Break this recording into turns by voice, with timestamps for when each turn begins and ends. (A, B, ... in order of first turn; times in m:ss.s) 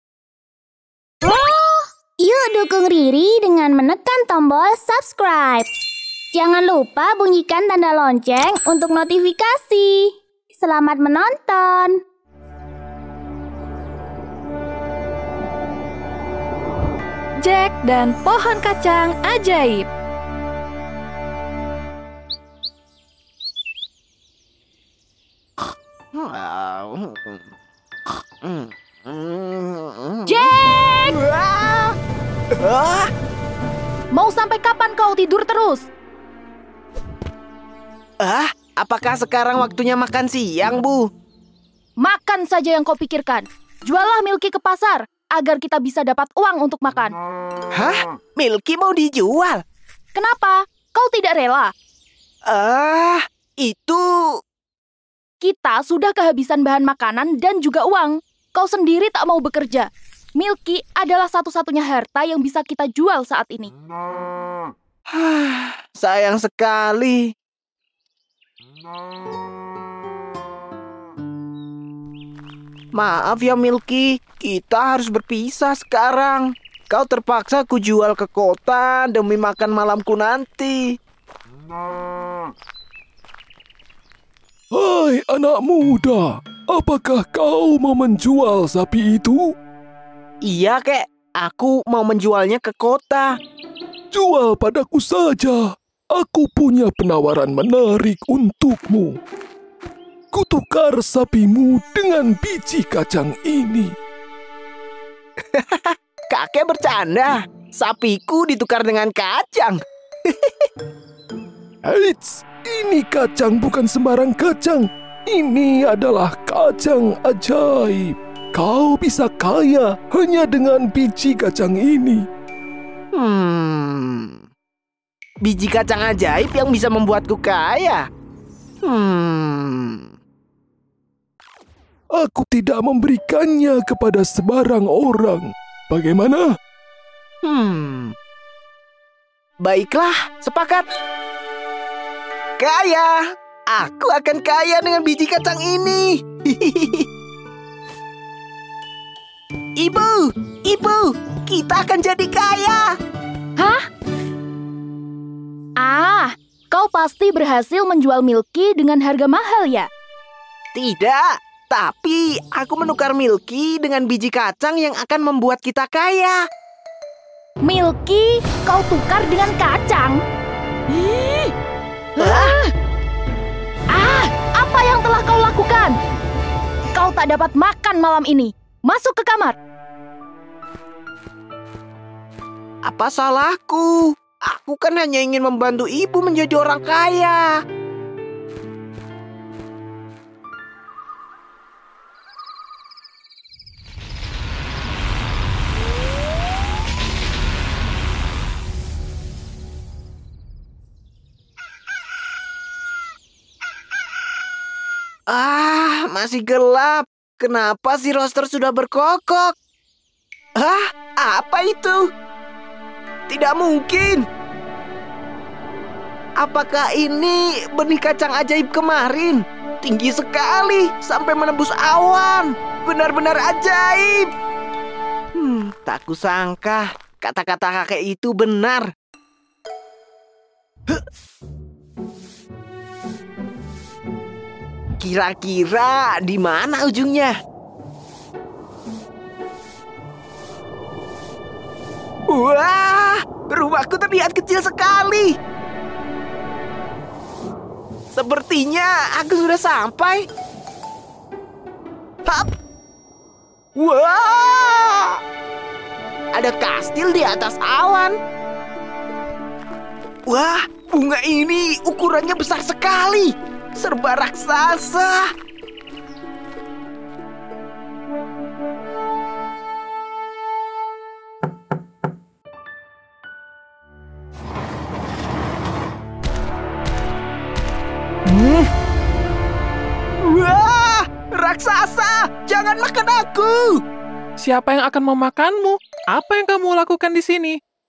0:01.2-0:05.7 A
0:06.3-0:12.0 A
0:17.5-0:19.8 B
0:26.1-0:27.5 C
0:28.4-0:31.9 C
0:30.3-0:31.2 B
0:32.6-0:33.1 C
0:34.1-0:35.9 B
0:38.2-0:41.1 C
0:42.0-0:47.2 B
0:47.8-0:49.6 C
0:50.1-0:51.7 B
0:52.5-0:54.3 C
0:55.4-1:03.7 B
1:05.1-1:07.3 C
1:13.0-1:21.0 C
1:24.7-1:29.5 D
1:30.4-1:33.3 C
1:34.1-1:39.2 D
1:40.3-1:43.9 D
1:45.5-1:49.8 C
1:51.8-2:02.2 D
2:03.1-2:04.4 C
2:05.4-2:08.0 C
2:08.8-2:10.1 C
2:12.2-2:16.5 D
2:17.4-2:18.2 C
2:19.6-2:20.9 C
2:22.6-2:23.2 C
2:23.7-2:27.1 C
2:29.8-2:32.9 C
2:33.6-2:33.8 B
2:35.8-2:39.9 B
2:40.8-2:46.4 C
2:47.6-2:50.2 B
2:50.9-2:51.5 B
2:52.2-2:52.6 C
2:52.2-2:52.7 B
2:53.9-2:56.0 B
2:57.0-2:59.6 B
3:02.9-3:07.5 C
3:25.3-3:29.5 C
3:30.6-3:32.1 C
3:33.3-3:34.2 C
3:36.4-3:44.3 C
3:45.4-3:48.9 C
3:55.0-3:57.3 C
4:02.3-4:05.4 C
4:08.1-4:10.2 C
4:13.8-4:15.2 C
4:16.3-4:18.2 C
4:20.3-4:25.2 C
4:38.3-4:38.7 E
4:40.2-4:43.8 C
4:44.4-4:47.6 E